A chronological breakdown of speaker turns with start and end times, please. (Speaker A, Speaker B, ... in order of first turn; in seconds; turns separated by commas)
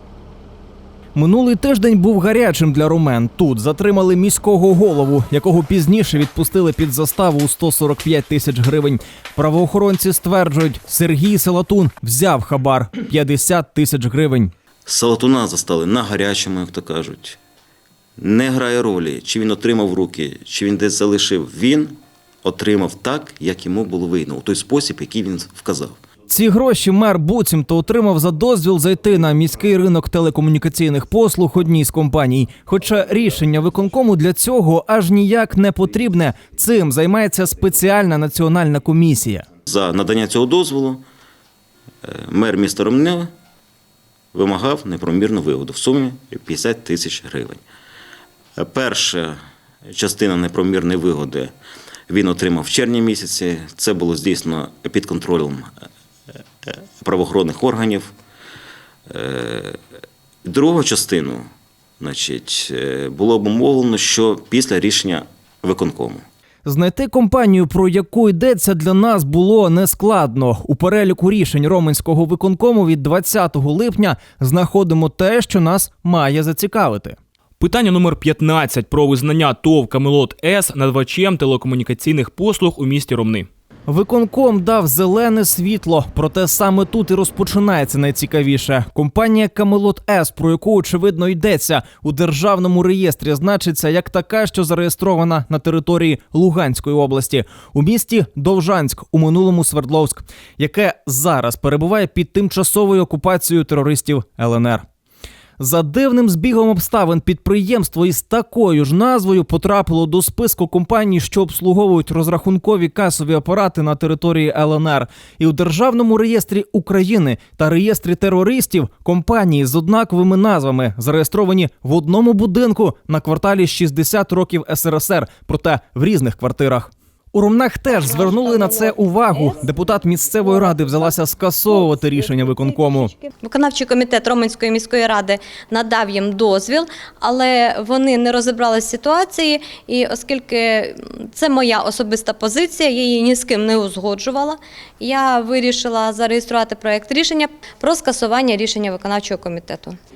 Speaker A: 1.1-14.5, Speaker B: 14.9-17.4, Speaker B: 18.2-26.0, Speaker A: 26.3-39.5, Speaker B: 39.7-41.0, Speaker B: 42.0-43.3, Speaker B: 44.3-47.6, Speaker B: 48.6-49.4, Speaker B: 49.9-51.5, Speaker B: 52.1-55.7, Speaker B: 56.7-58.1, Speaker B: 59.1-59.8, Speaker B: 60.5-61.5, Speaker B: 62.0-66.2, Speaker A: 66.7-77.2, Speaker C: 77.6-83.5, Speaker A: 83.9-104.8, Speaker A: 105.6-133.1, Speaker D: 133.4-150.0